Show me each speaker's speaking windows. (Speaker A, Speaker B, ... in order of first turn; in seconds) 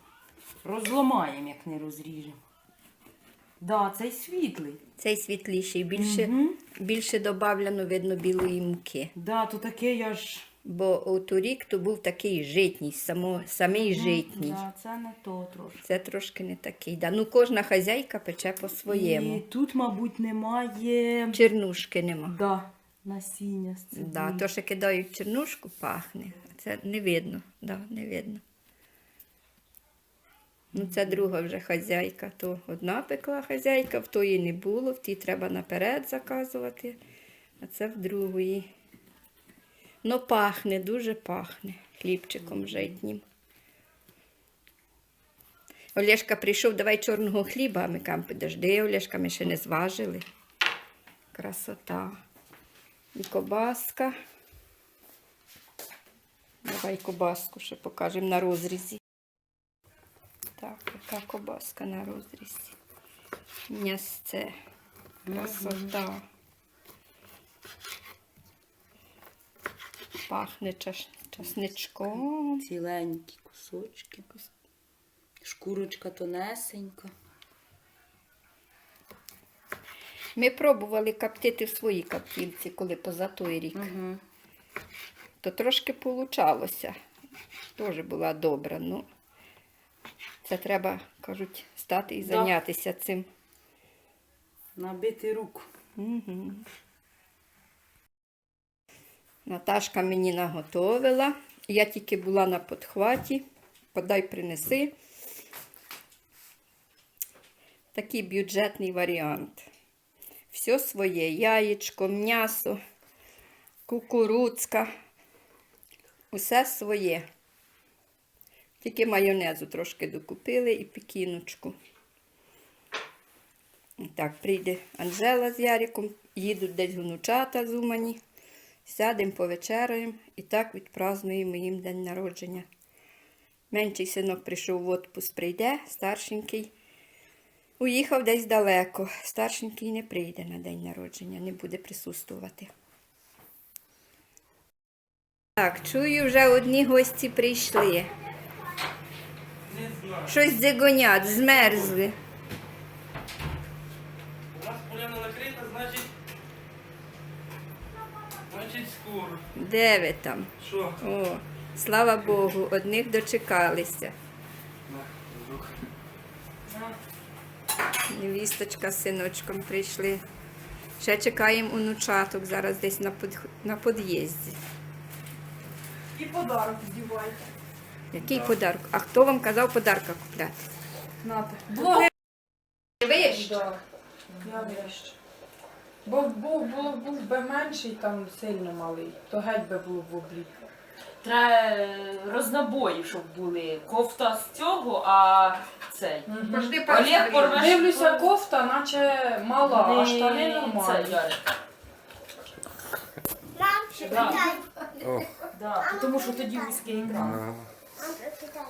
Speaker A: 0.6-2.4, 3.6-4.8, 5.9-6.6, 9.1-10.5, 13.7-15.8, 18.9-21.4, 22.3-24.4, 65.3-65.9, 72.6-74.3, 75.4-77.1, 83.7-84.2, 92.2-92.5, 94.8-95.7, 184.4-184.9, 191.2-198.3, 199.6-201.4, 204.0-204.6, 205.5-207.4
Speaker B: 5.0-9.1, 10.6-14.6, 15.8-19.4, 21.3-22.4, 23.9-28.4, 30.7-37.0, 37.6-38.7, 40.0-43.2, 45.9-50.2, 51.3-52.1, 53.1-54.1, 56.6-59.0, 60.6-62.7, 63.7-64.5, 65.3-66.2, 70.3-72.6, 80.3-83.9, 85.4-86.9, 87.7-89.0, 90.4-93.3, 96.0-96.6, 99.5-103.4, 103.9-104.9, 107.9-109.6, 110.5-112.8, 113.8-114.9, 116.3-117.2, 118.8-121.7, 124.0-128.2, 128.8-132.7, 133.7-136.7, 137.8-142.7, 145.6-148.1, 150.3-152.1, 159.5-164.1, 168.1-170.2, 171.0-174.6, 178.1-180.7, 181.8-182.1, 183.0-183.5, 196.5-197.5
Speaker C: 149.7-150.3, 154.5-156.1, 158.4-159.4, 160.6-161.0, 164.9-165.8, 205.0-205.3, 207.1-207.7
Speaker D: 176.1-177.5, 181.2-182.0, 183.1-183.8, 184.4-185.2, 186.0-190.5, 196.3-201.2, 204.0-204.5, 206.8-207.3